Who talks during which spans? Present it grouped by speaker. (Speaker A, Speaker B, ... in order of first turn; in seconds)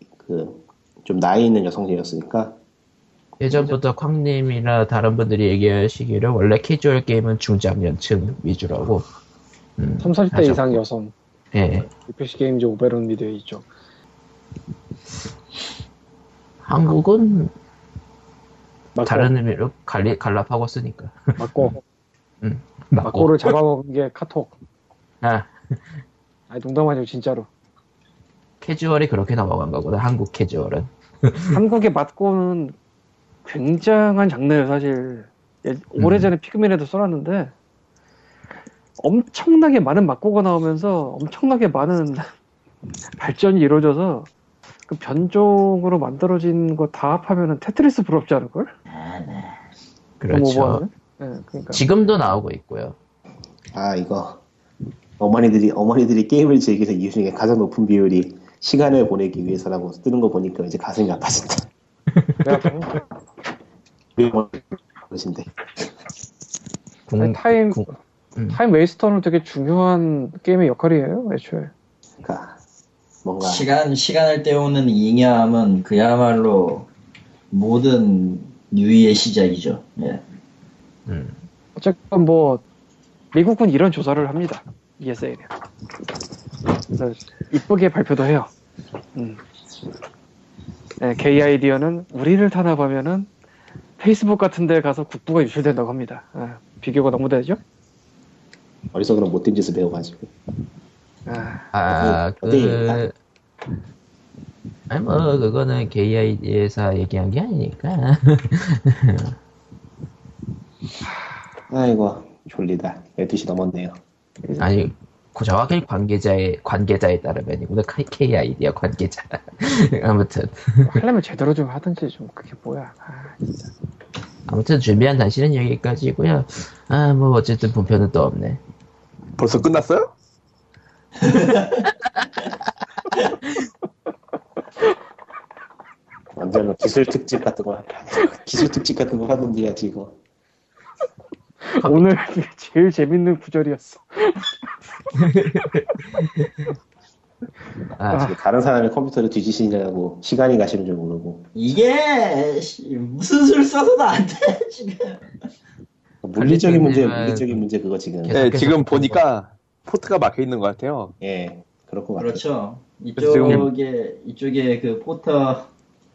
Speaker A: 0.2-2.5, 53.7-54.4, 55.2-61.7, 64.2-65.9, 72.2-72.6, 73.2-73.7, 98.9-100.3, 101.9-103.0, 111.7-114.0, 136.3-140.1, 148.1-151.5, 156.2-158.4, 161.2-162.4
Speaker B: 3.4-9.1, 9.8-10.8, 11.5-11.9, 16.6-17.5, 19.0-21.8, 22.4-23.6, 25.2-25.8, 28.6-31.6, 36.0-36.3, 50.2-50.8, 51.7-53.0, 62.2-62.5, 67.1-68.6, 81.1-81.4, 101.7-103.1, 104.9-109.3, 114.6-121.0, 124.5-128.6, 141.8-142.1, 145.2-146.7, 148.0-148.3, 156.3-157.6, 158.2-159.2, 163.4-163.7
Speaker C: 10.0-11.1, 11.9-13.7, 19.0-19.3, 21.4-21.8, 23.0-24.5, 26.5-27.5, 31.5-32.7, 33.5-37.5, 39.0-42.3, 43.2-44.3, 44.9-48.7, 50.3-51.8, 62.4-63.0, 67.2-67.9, 68.5-71.7, 81.8-82.6, 83.3-85.5, 86.9-88.5, 89.1-89.4, 91.0-93.3, 94.0-97.6, 101.2-101.7, 120.8-123.7, 141.7-144.6
Speaker D: 48.9-49.6, 73.4-76.9, 77.5-80.2, 131.2-131.8, 151.5-155.3, 162.2-165.7
Speaker E: 129.4-130.1, 158.3-161.1, 163.2-163.7